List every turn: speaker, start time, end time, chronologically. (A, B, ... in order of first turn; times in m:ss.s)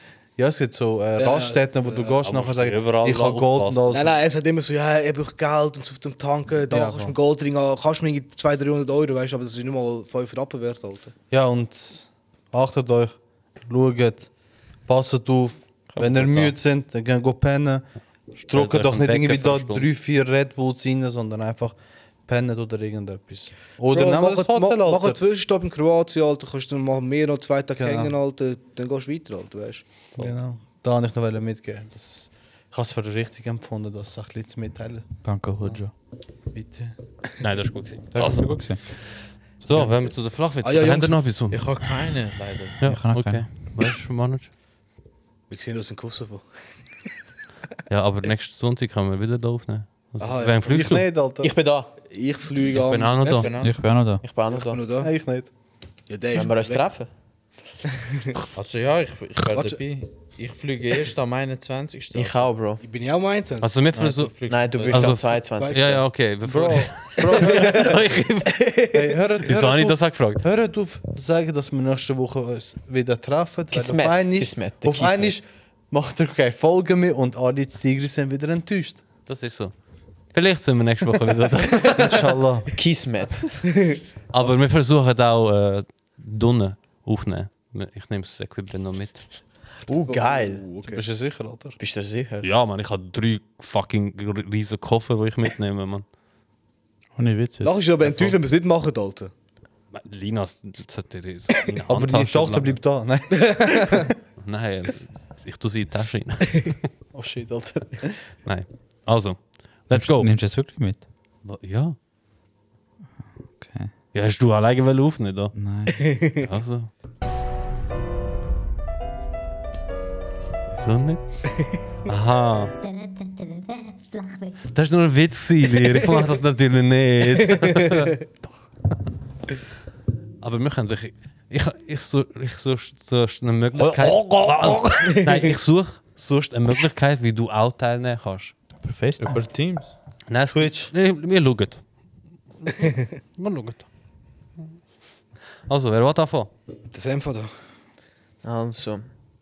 0:00.4-0:04.2 A
0:01.2-0:02.2 B
0:02.2-0:03.9 C
0:03.9-0:11.1 B
0:06.7-0:07.1 A
0:11.3-0:14.3 A
0:14.8-0:17.8 A
0:15.9-0:16.6 C
0:18.4-0:19.9 C
0:18.5-0:25.2 A
0:23.9-0:29.8 B
0:27.8-0:28.1 A
0:30.2-0:35.1 A
0:35.2-0:35.9 D
0:36.5-0:36.9 A
0:37.4-0:41.6 C
0:38.1-0:38.8 D
0:40.6-0:41.4 B
0:41.5-0:42.8 E
0:42.8-0:44.5 C
0:42.8-0:43.4 D
0:45.5-0:46.5 B
0:47.9-0:51.0 C
0:50.2-0:51.0 B
0:50.6-0:51.5 A
0:51.4-0:51.9 F
0:52.0-0:53.5 B
0:52.7-0:53.5 C
0:53.2-0:53.8 E
0:53.6-0:54.2 D
0:54.2-0:54.8 F
0:54.5-0:55.1 B
0:55.0-0:55.5 A
0:56.1-0:56.8 B
0:56.3-0:57.1 F
0:58.0-0:58.3 B
0:58.5-1:02.5 E
1:02.1-1:02.8 F
1:02.8-1:03.8 B
1:03.6-1:08.7 C
1:03.9-1:05.2 E
1:04.5-1:06.0 F
1:05.5-1:06.0 B
1:06.4-1:08.0 A
1:07.3-1:07.9 B
1:08.5-1:09.1 B
1:08.9-1:19.0 A
1:09.4-1:10.4 C
1:13.7-1:15.4 F
1:19.2-1:19.7 C
1:20.3-1:22.3 C
1:21.9-1:22.7 A
1:22.7-1:23.7 F
1:24.3-1:29.3 C
1:29.8-1:30.6 F
1:30.1-1:31.0 B
1:30.9-1:31.8 A
1:31.8-1:32.5 F
1:32.4-1:36.0 C
1:37.2-1:37.7 D
1:37.6-1:39.3 B
1:39.9-1:42.8 C
1:41.9-1:44.0 A
1:43.3-1:44.1 B
1:44.4-1:46.8 C
1:47.1-1:48.2 A
1:48.4-1:50.3 C
1:49.9-1:51.0 D
1:51.4-1:52.0 C
1:53.6-1:53.9 D
1:54.1-1:55.5 C
1:55.5-1:56.1 D
1:56.1-1:56.4 B
1:56.4-1:56.9 C
2:00.7-2:02.9 C
2:04.6-2:08.2 C
2:07.7-2:08.0 B
2:10.4-2:18.5 C
2:13.7-2:15.1 D
2:15.0-2:15.4 B
2:18.8-2:19.4 D
2:19.2-2:19.9 E
2:20.3-2:21.8 C
2:20.5-2:20.9 A
2:22.6-2:23.8 C
2:25.7-2:26.5 C
2:26.9-2:27.6 B
2:28.4-2:29.1 F